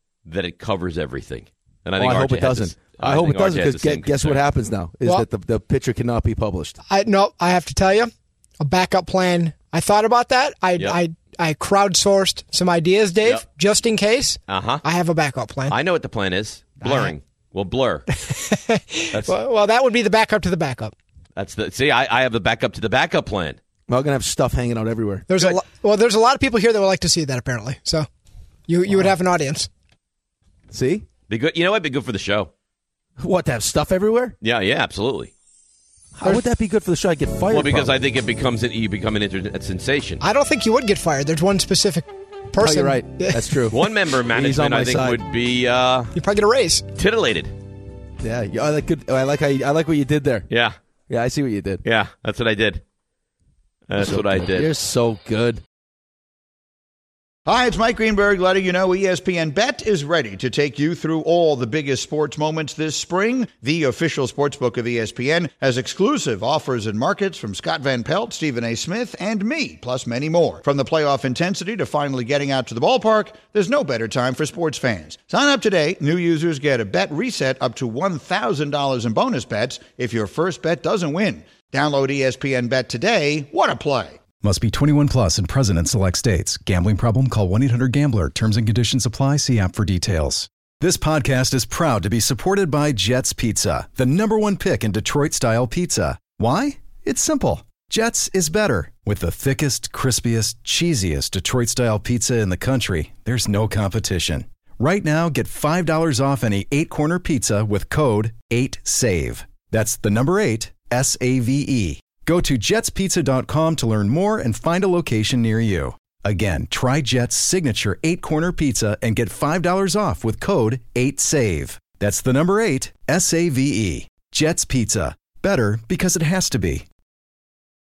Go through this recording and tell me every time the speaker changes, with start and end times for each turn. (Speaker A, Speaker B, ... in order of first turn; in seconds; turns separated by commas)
Speaker A: 0.2-4.4, Speaker B: 2.0-6.8, Speaker C: 6.9-15.8, Speaker A: 14.5-14.8, Speaker A: 15.7-18.0, Speaker C: 16.8-17.1, Speaker C: 18.1-20.9, Speaker A: 21.4-23.6, Speaker B: 23.9-25.5, Speaker C: 25.3-28.1, Speaker C: 28.7-29.7, Speaker B: 30.7-31.0, Speaker A: 31.3-32.5, Speaker B: 33.2-34.4, Speaker A: 34.4-35.3, Speaker B: 36.2-37.9, Speaker A: 37.5-40.2, Speaker C: 40.2-43.4, Speaker B: 42.6-43.8, Speaker A: 43.7-46.1, Speaker B: 44.3-45.2, Speaker C: 46.1-46.8, Speaker A: 47.0-47.5, Speaker B: 48.2-50.5, Speaker A: 50.5-50.8, Speaker B: 51.1-51.8, Speaker A: 51.8-52.8, Speaker A: 53.9-54.7, Speaker B: 54.0-55.6, Speaker D: 57.5-84.2, Speaker E: 84.4-126.8